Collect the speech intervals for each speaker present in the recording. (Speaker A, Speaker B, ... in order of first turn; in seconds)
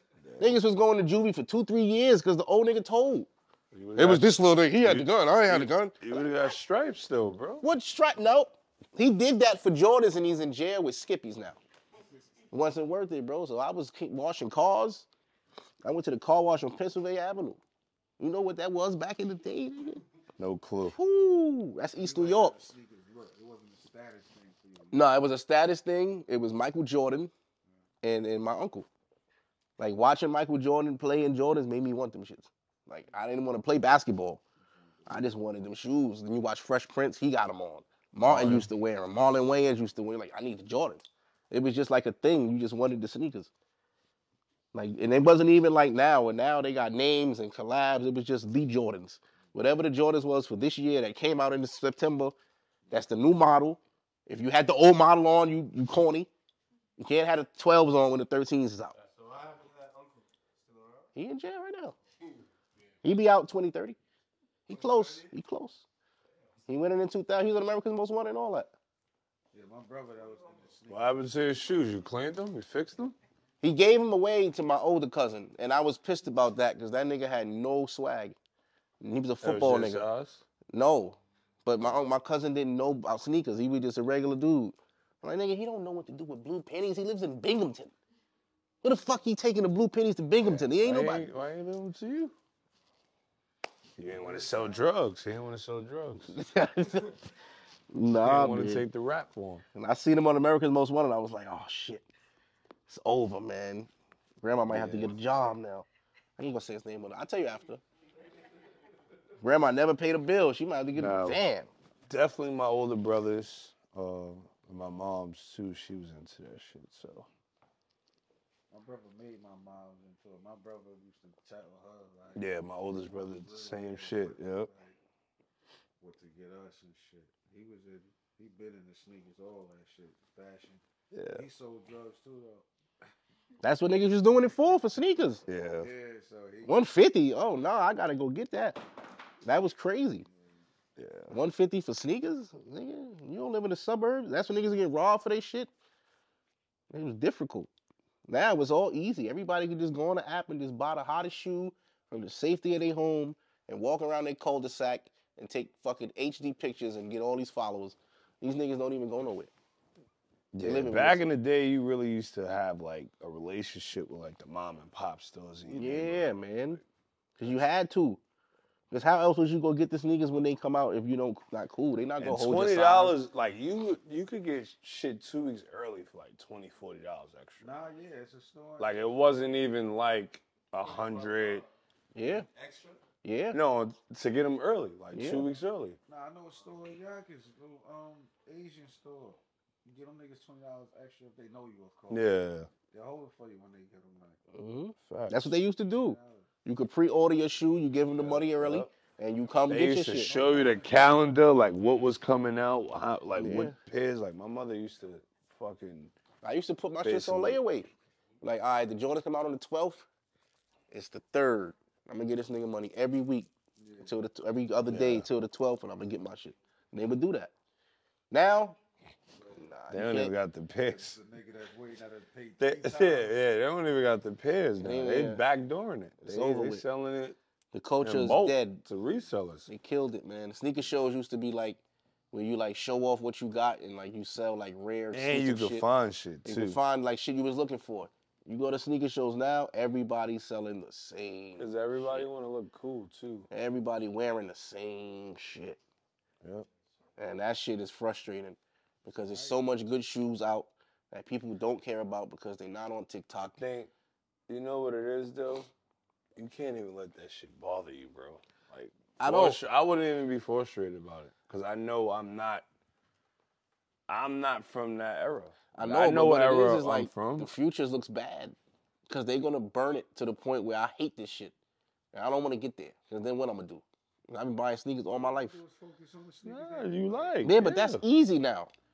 Speaker A: 0.2-0.6, 3.7-7.7, 20.4-21.0, 38.3-38.7, 70.9-73.2, 79.4-80.4, 90.4-92.4, 94.0-96.3, 98.1-99.7, 104.7-105.2, 110.9-111.4, 112.1-117.3, 122.3-124.7, 131.1-131.4, 135.5-135.9, 141.0-141.4, 160.5-166.8, 172.2-177.8, 178.8-181.7, 183.5-186.0, 192.1-192.7, 195.0-195.6, 198.1-198.9, 199.7-206.1, 207.0-207.6, 214.9-215.3, 219.9-221.2, 222.6-227.4, 228.0-229.7, 235.1-236.8, 241.6-243.5, 253.5-253.9, 254.5-255.7, 256.4-262.7, 264.1-267.5, 276.4-278.0
Speaker B: 0.4-3.3, 4.0-6.3, 7.6-11.6, 12.5-15.1, 15.8-17.6, 18.2-20.0, 20.9-22.6, 24.9-27.3, 28.0-28.9, 29.8-34.4, 35.1-43.5, 44.7-52.4, 52.9-56.3, 57.0-58.9, 61.1-62.0, 63.0-64.0, 64.7-65.8, 66.7-68.7, 73.6-78.4, 79.0-80.1, 80.7-87.9, 88.8-91.3, 96.3-97.1, 97.9-98.8, 99.8-102.1, 102.9-103.9, 104.4-105.9, 106.4-107.8, 109.4-111.7, 133.6-135.4, 136.7-138.8, 139.4-140.3, 141.3-145.7, 146.9-147.7, 148.3-159.5, 160.6-161.2, 165.7-166.8, 167.4-168.2, 168.9-173.2, 182.1-182.5, 183.2-183.6, 185.1-185.5, 194.5-200.3, 203.4-203.8, 206.4-207.9, 208.4-210.1, 210.9-213.5, 214.0-217.5, 218.3-218.8, 219.6-220.3, 224.8-225.4, 226.2-226.8, 227.7-228.8, 229.7-231.8, 232.3-235.9, 236.5-242.2, 243.5-245.8, 247.2-253.6, 259.2-259.6, 265.7-268.6, 269.1-271.6, 272.1-275.6, 277.4-278.7
Speaker C: 22.0-25.0, 69.5-71.2, 94.2-94.8, 118.7-122.5, 123.1-125.0, 126.0-132.7, 135.8-136.9, 140.3-140.6, 177.6-179.0, 186.1-192.3, 192.9-194.4, 195.9-196.5, 200.1-201.2, 213.8-214.1, 219.4-219.7, 220.8-223.3, 249.3-249.6, 275.1-277.4
Speaker D: 58.9-61.1, 62.3-62.9, 64.7-65.3, 180.8-181.7, 182.3-183.0